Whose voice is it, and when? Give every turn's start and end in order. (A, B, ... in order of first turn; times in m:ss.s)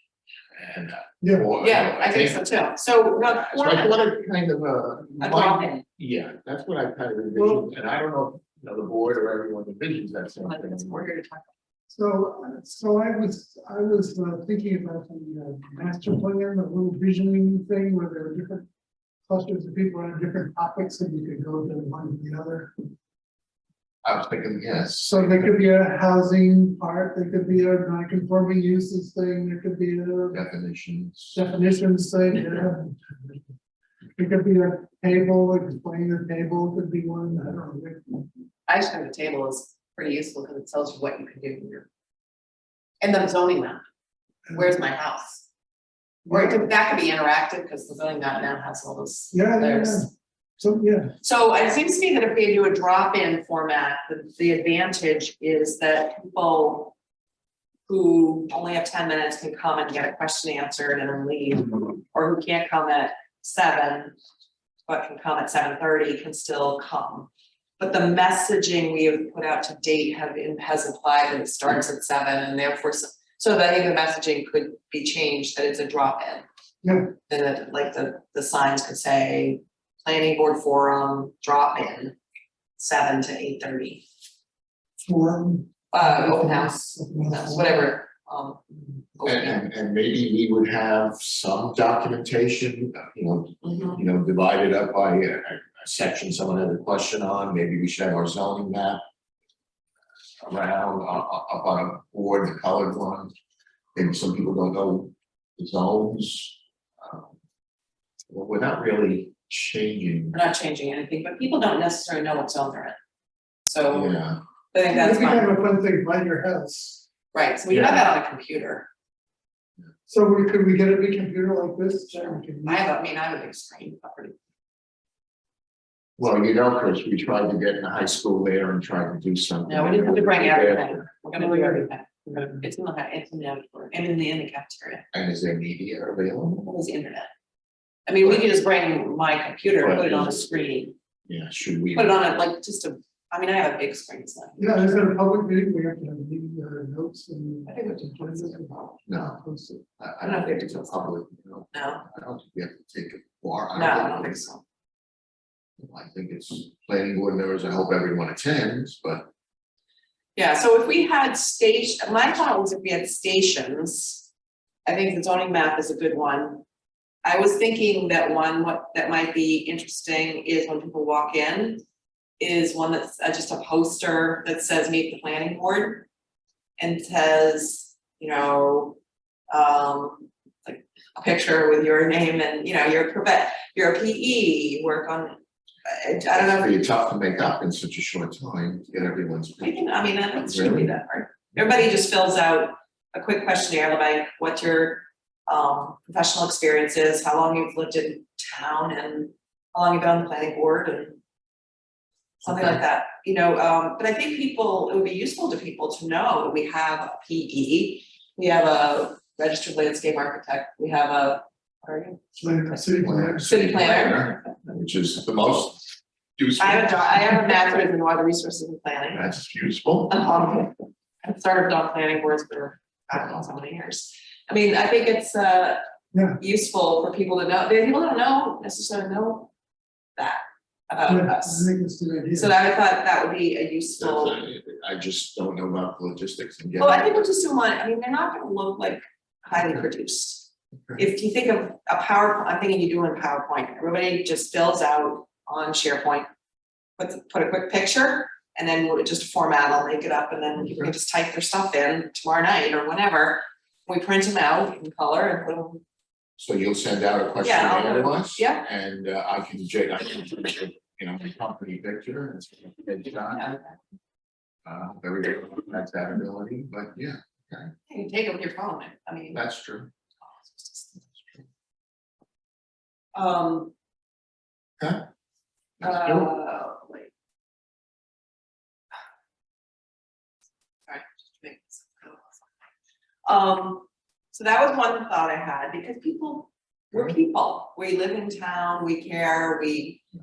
0:00.5-0:02.4 A
0:01.2-0:01.5 B
0:01.6-0:04.0 C
0:03.2-0:11.1 A
0:05.2-0:05.8 C
0:07.4-0:07.7 B
0:10.4-0:11.5 C
0:11.9-0:18.7 B
0:19.3-0:22.7 B
0:24.0-0:25.6 A
0:25.0-0:30.4 B
0:30.3-0:31.4 A
0:31.3-0:33.4 B
0:34.2-0:38.3 B
0:38.7-0:41.9 C
0:43.0-0:43.8 C
0:44.5-0:45.4 C
0:46.2-0:46.7 B
0:46.3-0:50.1 C
0:49.3-0:51.2 B
0:51.2-0:56.9 C
0:57.9-1:04.1 C
1:04.9-1:16.4 C
1:16.8-1:17.1 B
1:17.3-1:22.2 C
1:22.8-1:24.0 C
1:25.0-1:27.9 B
1:25.9-1:28.6 C
1:29.2-1:29.6 C
1:29.2-1:39.0 A
1:33.6-1:34.0 C
1:40.4-1:43.3 A
1:44.0-1:47.4 A
1:48.3-1:50.4 A
1:50.3-1:53.0 C
1:53.7-1:54.2 C
1:53.9-1:54.4 A
1:54.7-1:55.5 C
1:54.9-1:57.1 B
1:57.3-1:58.9 C
1:57.7-1:58.1 A
2:00.1-2:02.8 B
2:02.1-2:04.4 C
2:06.2-2:11.1 A
2:09.7-2:15.0 C
2:11.3-2:12.5 B
2:15.1-2:16.7 A
2:16.7-2:17.3 C
2:18.1-2:20.9 C
2:19.8-2:20.4 A
2:21.3-2:22.2 A
2:21.9-2:24.9 C
2:24.6-2:28.7 B
2:27.7-2:29.0 C
2:29.1-2:29.4 A
2:29.3-2:29.8 B
2:30.0-2:34.4 A
2:30.2-2:31.1 C
2:31.7-2:32.0 C
2:33.8-2:34.6 C
2:35.8-2:39.3 A
2:40.4-2:44.2 C
2:44.8-2:46.6 C
2:47.2-2:51.8 C
2:52.4-2:56.1 C
2:56.8-2:59.0 C
2:59.5-3:06.8 C
3:06.3-3:11.0 A
3:09.6-3:21.2 C
3:22.4-3:34.5 C
3:32.4-3:33.5 B
3:32.9-3:37.5 A
3:36.6-3:39.2 C
3:39.1-3:40.2 A
3:40.1-3:45.8 C
3:46.1-3:46.4 B
3:46.4-3:49.5 C
3:50.2-3:51.7 C
3:51.1-3:52.5 B
3:52.3-3:54.4 C
3:54.0-3:57.2 A
3:56.8-4:06.3 C
4:07.0-4:15.8 C
4:10.6-4:10.9 A
4:16.4-4:23.5 A
4:17.4-4:18.6 C
4:23.3-4:23.8 C
4:24.6-4:27.7 A
4:27.9-4:29.4 C
4:29.3-4:29.9 A
4:30.3-4:30.9 C
4:33.1-4:33.7 C
4:35.8-4:36.3 A
4:35.8-4:37.1 C
4:40.9-4:42.4 C
4:43.2-4:50.0 C